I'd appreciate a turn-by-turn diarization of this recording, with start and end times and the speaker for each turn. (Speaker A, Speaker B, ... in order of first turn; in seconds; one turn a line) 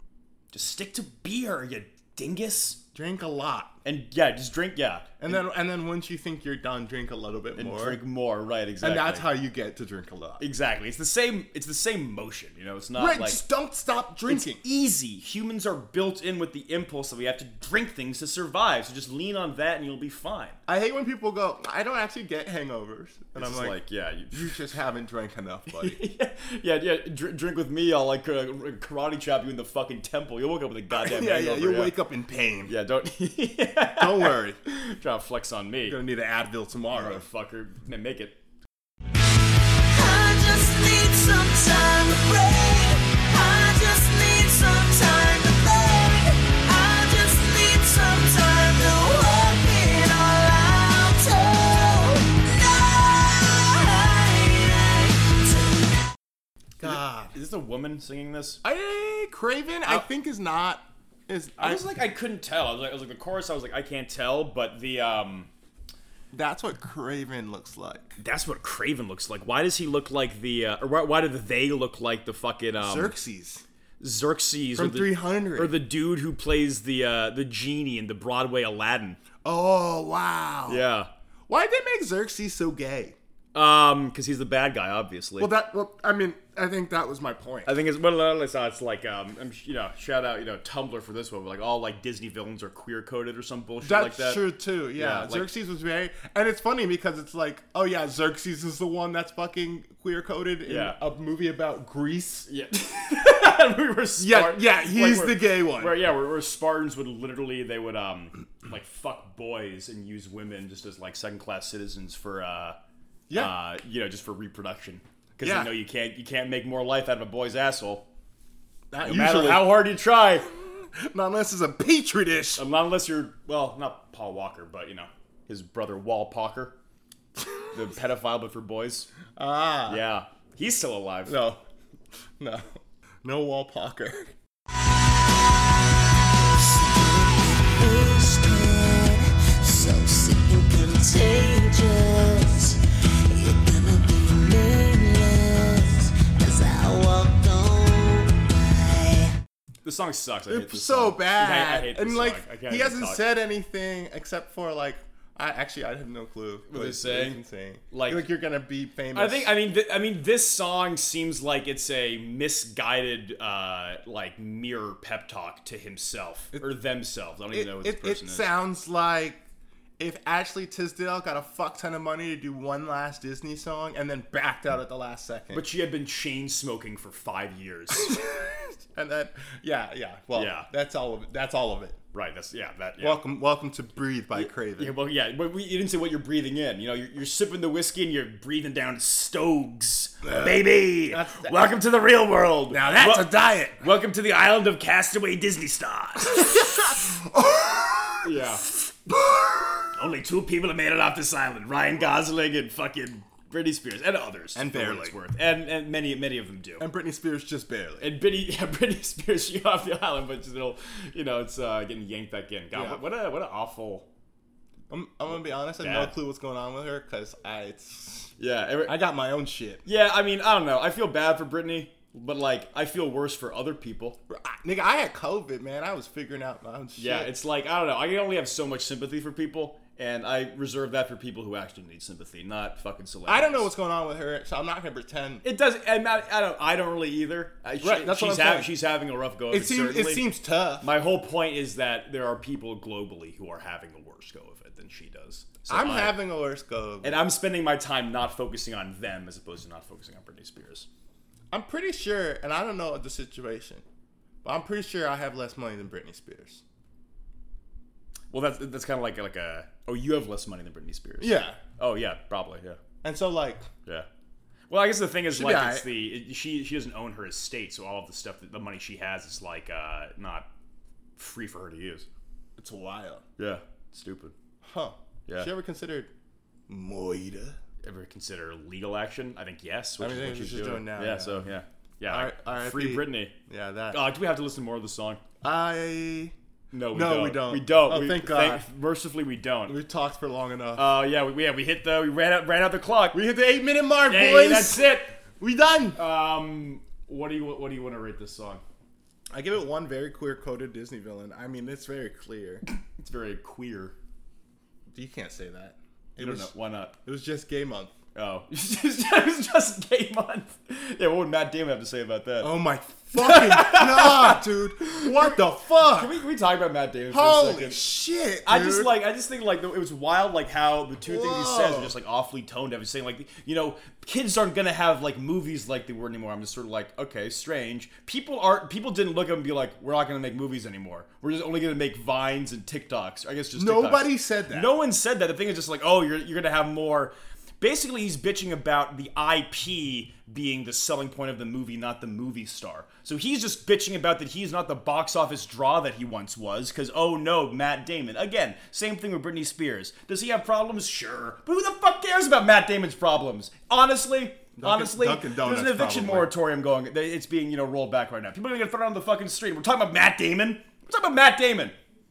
Speaker A: 0.5-2.8
Speaker B: 2.9-3.8
Speaker A: 3.8-5.4
Speaker B: 5.2-8.0
Speaker A: 7.5-9.3
Speaker B: 8.8-10.4
Speaker A: 10.4-13.4
Speaker B: 12.9-14.6
Speaker A: 14.3-20.6
Speaker B: 20.7-23.8
Speaker A: 23.3-24.5
Speaker B: 24.3-26.0
Speaker A: 25.7-31.9
Speaker B: 30.9-32.7
Speaker A: 32.6-36.0
Speaker B: 34.0-34.6
Speaker B: 35.9-37.2
Speaker A: 36.9-38.4
Speaker C: 39.9-56.0
Speaker B: 56.8-57.3
Speaker A: 56.8-58.6
Speaker B: 58.6-61.9
Speaker A: 61.6-65.5
Speaker B: 66.3-68.2
Speaker A: 68.2-73.1
Speaker B: 72.8-73.6
Speaker A: 74.0-79.2
Speaker B: 74.7-75.7
Speaker B: 79.4-80.8
Speaker A: 80.7-81.1
Speaker B: 81.5-83.2
Speaker A: 83.5-85.5
Speaker B: 85.4-87.7
Speaker A: 87.6-94.4
Speaker B: 93.8-102.5
Speaker A: 94.9-95.5
Speaker A: 100.7-101.0
Speaker A: 102.5-112.8
Speaker B: 104.2-106.0
Speaker A: 113.3-118.0
Speaker B: 115.4-115.7
Speaker B: 118.9-119.8
Speaker A: 119.0-120.5
Speaker B: 120.5-122.7
Speaker A: 122.6-126.8
Speaker A: 127.7-129.1
Speaker B: 129.3-130.0
Speaker A: 129.9-131.4
Speaker B: 131.2-131.6
Speaker B: 132.4-134.3
Speaker C: 135.2-142.8
Speaker C: 143.3-149.3
Speaker A: 149.8-153.2
Speaker B: 150.5-159.5
Speaker A: 156.7-157.4
Speaker A: 157.9-158.3
Speaker A: 159.1-168.5
Speaker B: 167.5-169.4
Speaker B: 170.0-175.6
Speaker A: 175.5-178.2
Speaker B: 177.9-182.0
Speaker A: 180.3-180.7
Speaker A: 182.1-183.2
Speaker B: 183.0-184.9
Speaker A: 184.3-196.5
Speaker B: 190.2-191.7
Speaker B: 192.7-193.8
Speaker B: 196.3-199.9
Speaker A: 198.2-198.7
Speaker A: 199.9-206.9
Speaker B: 204.5-205.2
Speaker B: 206.8-208.1
Speaker A: 208.0-214.1
Speaker B: 212.7-213.0
Speaker B: 214.9-218.3
Speaker A: 215.8-216.1
Speaker A: 218.4-218.9
Speaker B: 218.8-219.8
Speaker A: 219.8-224.2
Speaker B: 224.3-227.3
Speaker A: 227.0-233.7
Speaker B: 233.3-235.4
Speaker A: 235.4-240.2
Speaker B: 237.8-238.7
Speaker B: 239.5-240.9
Speaker A: 240.8-246.2
Speaker B: 245.7-247.2
Speaker A: 247.0-250.9
Speaker B: 251.5-253.8
Speaker B: 254.4-256.6
Speaker A: 258.3-262.8
Speaker B: 261.2-261.6
Speaker B: 263.0-263.7
Speaker A: 264.7-270.5
Speaker B: 265.3-265.9
Speaker A: 271.2-272.1
Speaker B: 272.6-273.2
Speaker A: 273.4-274.3
Speaker B: 274.6-276.1
Speaker B: 276.7-277.6
Speaker A: 277.8-283.3
Speaker B: 280.0-281.4
Speaker B: 282.1-284.0
Speaker A: 283.9-285.2
Speaker B: 285.4-286.3
Speaker A: 286.7-289.8
Speaker B: 286.9-288.6
Speaker B: 289.7-291.0
Speaker A: 290.8-293.2
Speaker B: 293.1-296.0
Speaker A: 294.1-295.1
Speaker A: 295.9-298.6
Speaker B: 299.3-302.6
Speaker A: 302.9-303.9
Speaker B: 304.9-306.5
Speaker A: 306.2-306.9
Speaker B: 307.0-307.9
Speaker A: 308.1-312.5
Speaker B: 312.4-316.2
Speaker A: 313.1-315.4
Speaker A: 315.9-317.8
Speaker B: 317.1-318.9
Speaker A: 318.4-361.8
Speaker B: 321.1-321.9
Speaker B: 333.6-334.7
Speaker B: 354.6-356.3